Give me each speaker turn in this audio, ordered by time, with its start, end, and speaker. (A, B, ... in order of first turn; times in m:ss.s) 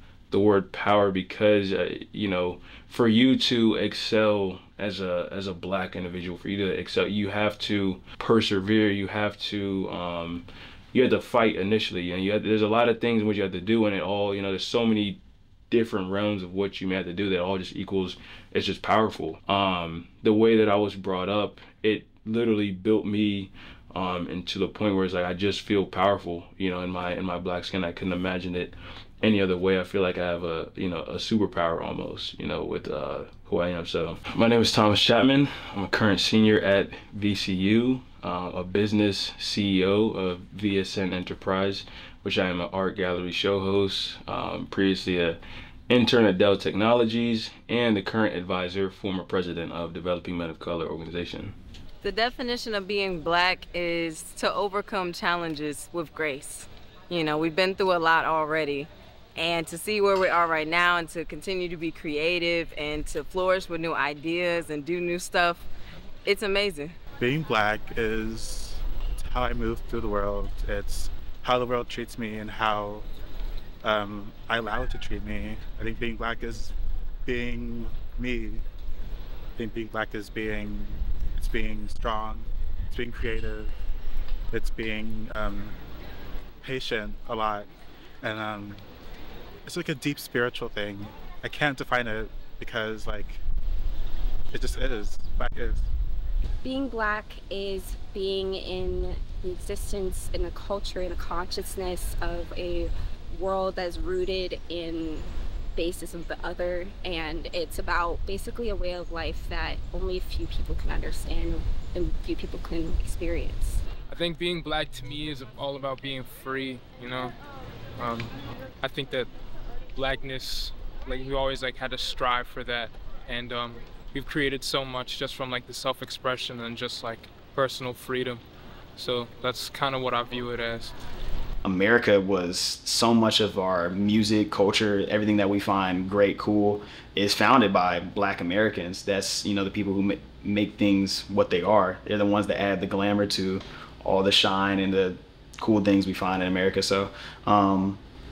0:00.3-0:15.2 A
0:15.7-0:45.4 A
0:45.9-0:51.6 A
0:52.0-1:05.7 B
1:06.2-1:07.0 B
1:07.2-1:13.1 C
1:13.8-1:16.7 C
1:17.3-1:18.6 C
1:19.6-1:23.7 C
1:24.5-1:25.8 C
1:26.6-1:27.7 C
1:28.2-1:28.8 C
1:29.7-1:33.4 C
1:34.5-1:35.9 C
1:36.6-1:53.8 D
1:54.1-1:57.3 E
1:58.0-1:59.3 E
2:00.0-2:08.4 E
2:09.0-2:11.0 E
2:11.6-2:28.0 F